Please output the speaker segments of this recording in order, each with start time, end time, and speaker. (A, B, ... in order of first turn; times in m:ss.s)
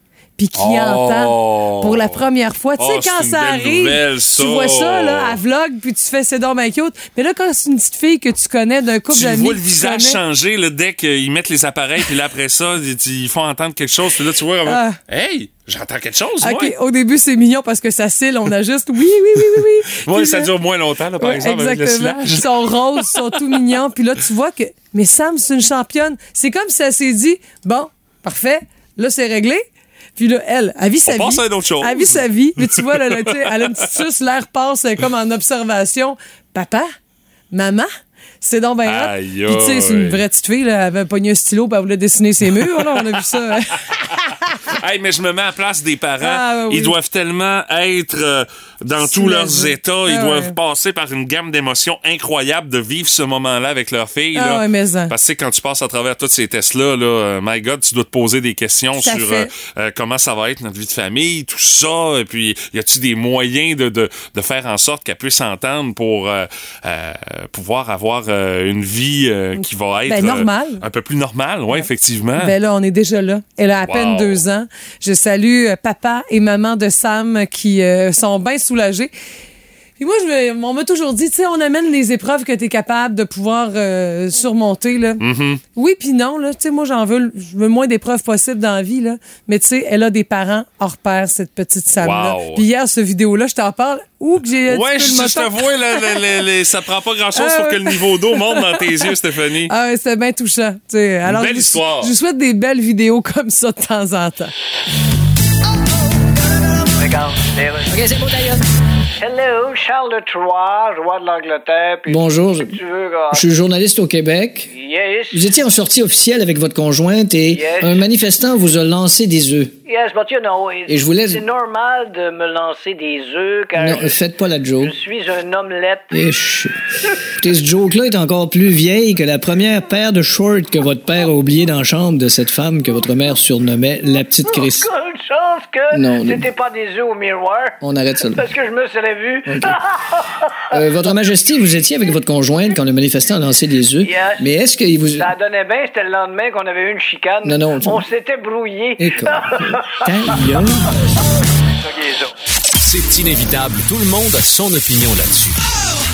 0:00.4-0:10.2 A
0:00.6-0:02.2 B
0:02.8-0:05.4 B
0:09.1-0:16.7 B
0:14.7-0:15.0 A
0:16.4-0:20.5 A
0:20.0-0:23.4 B
0:21.2-0:29.6 A
0:30.2-0:36.9 A
0:31.1-0:33.8 B
0:37.5-0:37.9 A
0:38.4-0:43.8 A
0:38.8-0:40.2 B
0:43.0-0:43.4 B
0:44.7-1:12.6 B
0:46.2-0:46.9 A
0:49.0-0:50.6 A
0:54.4-0:55.1 A
0:59.0-0:59.5 A
1:10.1-1:10.8 A
1:12.4-1:19.1 A
1:13.8-1:14.4 B
1:20.0-1:25.2 A
1:25.2-1:25.6 B
1:25.8-1:36.2 A
1:32.0-1:32.6 B
1:34.7-1:39.7 B
1:37.4-1:39.1 A
1:39.7-1:44.5 A
1:41.2-1:42.1 B
1:47.0-1:48.6 C
1:49.2-1:53.4 C
1:52.1-1:52.7 D
1:53.3-1:54.7 D
1:54.7-1:55.4 C
1:55.3-1:59.8 D
1:57.5-1:58.0 C
1:59.9-2:04.2 C
2:00.9-2:01.5 D
2:03.8-2:05.0 D
2:04.8-2:06.1 C
2:06.1-2:06.7 D
2:07.4-2:14.9 D
2:14.4-2:17.8 C
2:15.9-2:16.5 D
2:17.8-2:18.5 D
2:18.3-2:20.2 C
2:19.5-2:19.8 D
2:20.7-2:25.3 D
2:24.0-2:24.5 C
2:25.2-2:30.1 C
2:27.4-2:28.0 D
2:29.0-2:30.9 D
2:31.8-2:32.3 C
2:32.8-2:35.6 E